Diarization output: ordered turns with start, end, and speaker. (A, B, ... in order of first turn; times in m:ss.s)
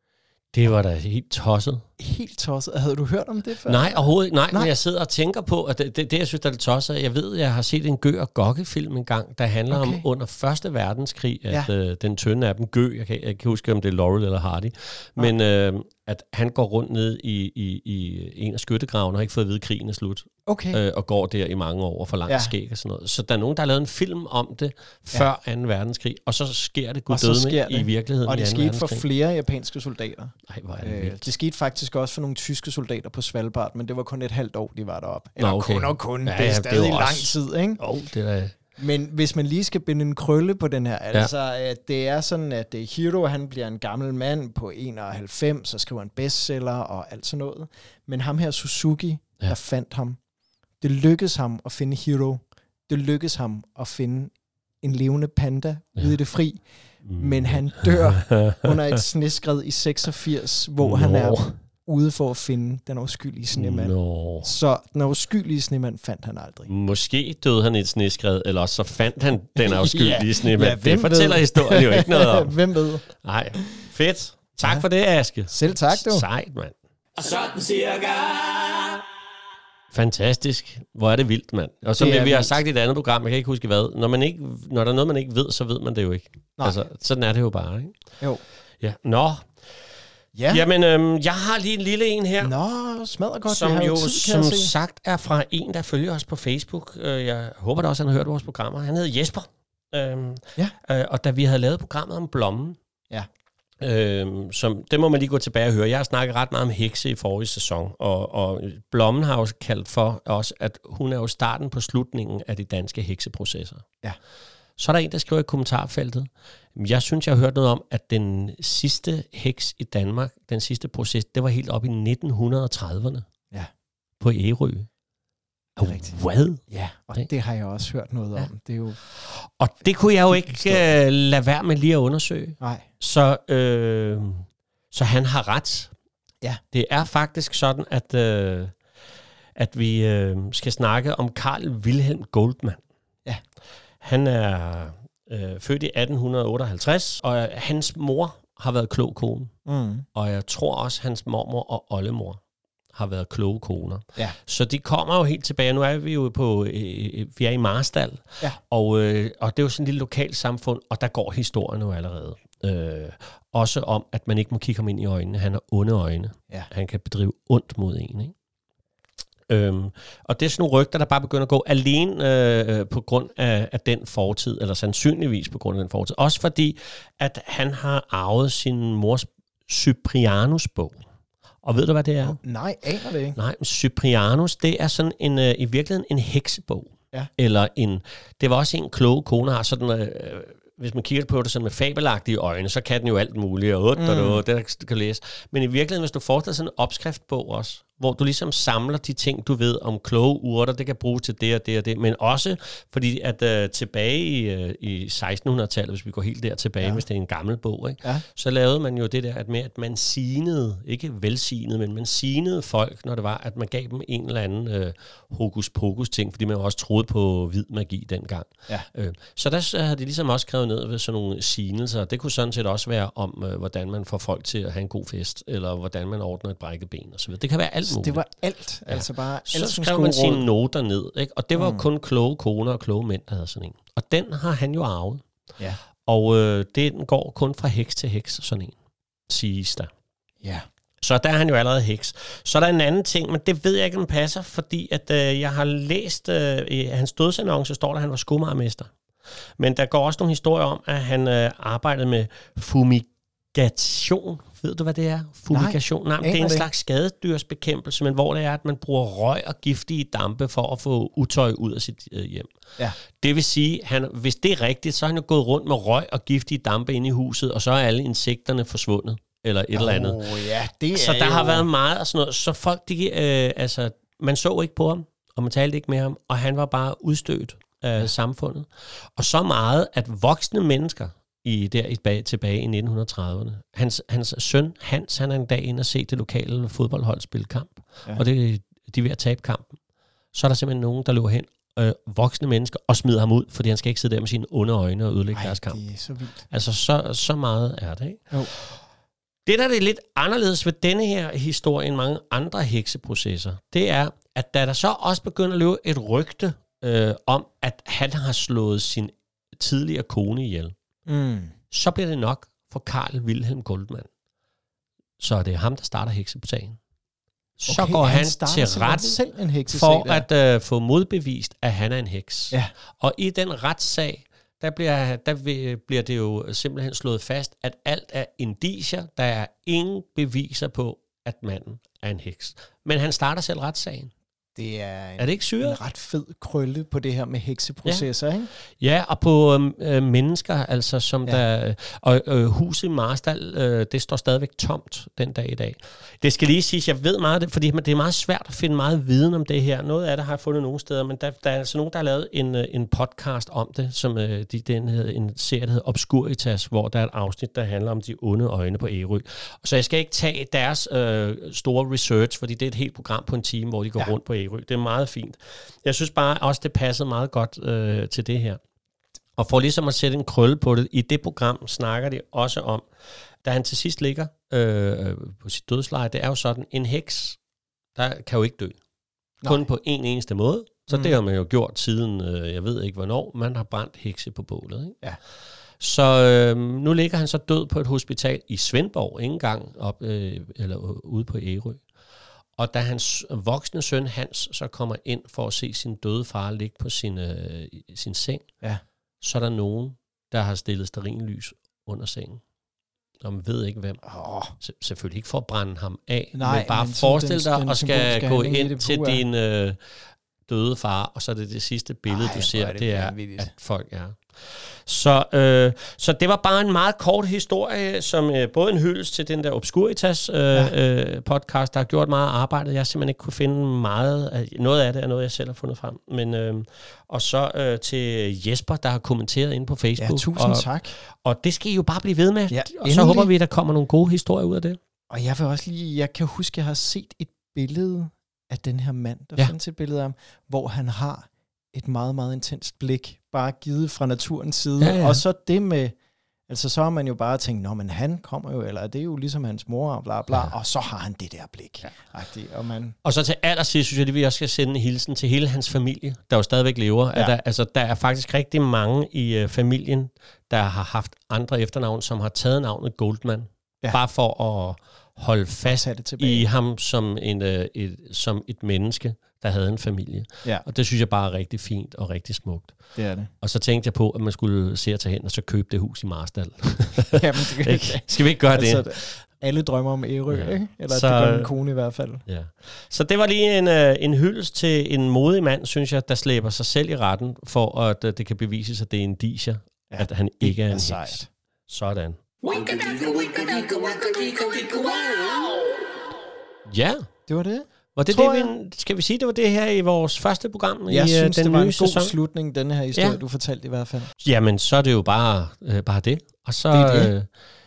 0:00.5-0:01.8 A
0:02.0-0:04.7 B
0:03.6-0:29.0 A
0:09.7-0:10.0 B
0:20.4-0:20.8 B
0:27.1-0:37.8 B
0:30.5-0:31.2 A
0:35.4-0:38.6 A
0:38.8-0:50.2 B
0:50.8-0:56.6 B
0:57.0-0:58.7 A
0:57.2-1:06.7 B
1:00.8-1:01.6 A
1:03.5-1:04.5 A
1:06.7-1:12.6 A
1:09.6-1:13.0 B
1:13.1-1:16.7 A
1:15.5-1:16.2 B
1:17.2-1:19.0 C
1:19.9-1:28.0 A
1:22.0-1:22.6 B
1:28.8-1:29.5 A
1:30.3-1:30.6 B
1:30.5-1:32.5 A
1:32.4-1:34.7 B
1:33.5-1:42.8 A
1:43.8-1:53.8 A
1:54.8-2:03.2 A
2:04.2-2:04.9 A
2:05.8-2:06.6 A
2:05.8-2:06.1 B
2:06.7-2:09.0 B
2:09.1-2:15.9 A
2:10.3-2:10.9 B
2:12.6-2:12.9 B
2:16.7-2:18.8 A
2:19.6-2:22.8 A
2:24.0-2:29.5 A
2:29.6-2:30.0 B
2:30.1-2:32.4 A
2:32.9-2:48.3 A
2:49.5-3:01.0 A
3:01.6-3:02.4 A
3:02.2-3:03.4 B
3:03.4-3:48.2 A
3:14.0-3:14.4 B
3:47.8-3:50.4 B
3:48.9-3:55.2 A
3:51.5-3:51.8 B
3:56.0-3:58.8 A
3:59.3-3:59.9 A
4:01.0-4:08.9 A
4:09.6-4:22.5 A
4:15.5-4:16.7 B
4:23.0-4:30.3 A
4:29.7-4:31.7 B
4:30.9-4:49.8 A
4:50.3-4:55.8 A
4:55.3-4:56.4 B
4:56.5-4:58.8 A
4:59.4-5:10.7 A
5:11.1-5:11.5 B
5:11.7-5:14.1 A
5:15.2-5:16.8 A
5:17.6-5:34.1 A
5:17.7-5:20.2 B
5:34.6-5:38.5 B
5:35.2-5:35.8 A
5:38.8-6:08.6 A
6:09.4-6:12.8 A
6:13.4-6:17.4 A
6:18.0-6:18.8 A
6:19.4-6:25.0 A
6:25.8-6:31.8 A
6:32.6-6:38.4 A
6:39.2-6:42.4 A
6:43.2-6:44.0 A
6:44.0-6:44.5 B
6:44.6-6:49.8 A
6:46.3-6:49.2 B
6:50.5-7:14.8 A
6:52.1-6:53.5 B
7:10.0-7:10.9 B
7:12.5-7:13.3 B
7:15.1-7:25.9 B
7:24.8-7:25.2 A
7:26.5-7:33.0 B
7:33.0-7:52.8 A
7:45.6-7:46.4 B
7:53.0-7:53.3 B
7:53.4-7:59.2 A
7:57.1-8:02.2 B
8:00.3-8:01.5 A
8:02.2-8:12.2 A
8:09.9-8:11.3 B
8:12.4-8:15.7 C
8:16.7-8:17.1 A
8:17.3-8:18.5 B
8:17.9-8:22.1 A
8:20.9-8:24.1 B
8:22.9-8:23.2 A
8:24.2-8:27.3 A
8:26.7-8:27.1 B